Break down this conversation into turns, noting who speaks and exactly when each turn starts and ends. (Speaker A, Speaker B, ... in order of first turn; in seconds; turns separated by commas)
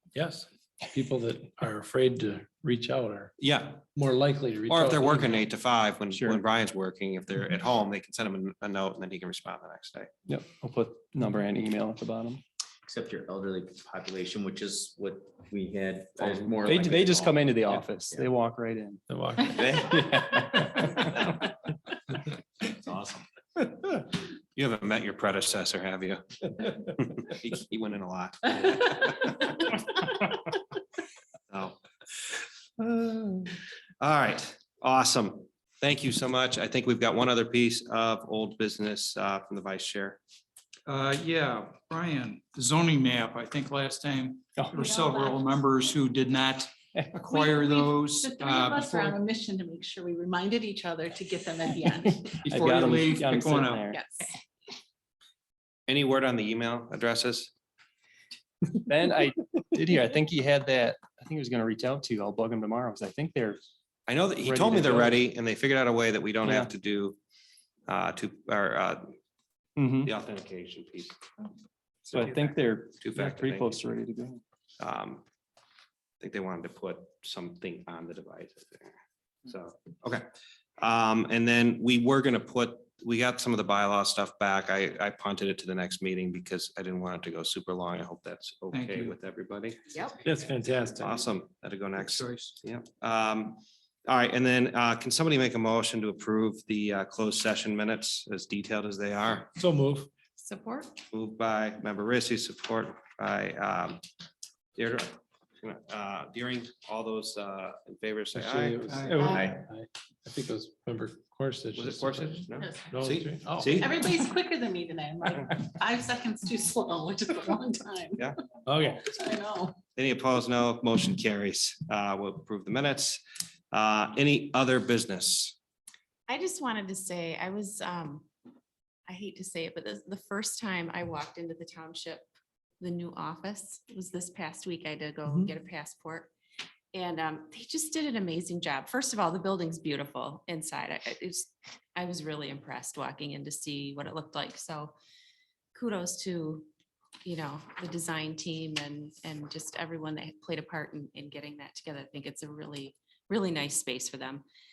Speaker A: 0.1-3.4, Speaker B: 3.4-3.8, Speaker A: 4.0-5.5, Speaker B: 4.7-10.1, Speaker C: 6.1-6.4, Speaker C: 10.3-12.4, Speaker D: 12.9-18.3, Speaker C: 16.5-19.0, Speaker A: 19.1-20.4, Speaker D: 19.6-20.3, Speaker C: 19.8-21.0, Speaker D: 22.7-23.2, Speaker B: 24.6-30.2, Speaker B: 31.5-31.8, Speaker B: 32.8-40.2, Speaker E: 40.9-49.2, Speaker F: 44.8-45.6, Speaker F: 47.3-52.4, Speaker C: 52.5-54.0, Speaker E: 52.5-53.9, Speaker G: 53.9-54.3, Speaker F: 54.0-54.4, Speaker B: 55.9-57.5, Speaker C: 58.8-63.6, Speaker B: 64.1-67.2, Speaker C: 64.4-65.2, Speaker C: 66.4-66.7, Speaker B: 67.9-69.2, Speaker C: 69.8-70.1, Speaker B: 70.0-71.2, Speaker C: 72.1-74.4, Speaker B: 73.0-73.8, Speaker B: 74.8-75.2, Speaker B: 76.2-79.0, Speaker B: 79.5-80.2, Speaker B: 80.8-89.8, Speaker E: 88.7-89.2, Speaker G: 89.9-90.2, Speaker A: 90.2-91.1, Speaker B: 91.0-99.5, Speaker E: 92.0-92.5, Speaker A: 99.6-100.1, Speaker G: 100.4-101.0, Speaker B: 101.1-104.0, Speaker B: 104.8-108.8, Speaker A: 108.3-114.0, Speaker E: 108.9-109.3, Speaker D: 109.2-109.6, Speaker B: 111.8-114.2, Speaker F: 112.6-112.9, Speaker F: 113.8-118.2, Speaker A: 118.7-119.1, Speaker F: 118.8-119.8, Speaker B: 119.9-123.2, Speaker B: 123.7-125.5, Speaker G: 126.3-128.3, Speaker G: 129.1-132.3, Speaker G: 132.8-136.3, Speaker G: 136.9-145.0, Speaker G: 145.8-146.7, Speaker G: 147.2-154.4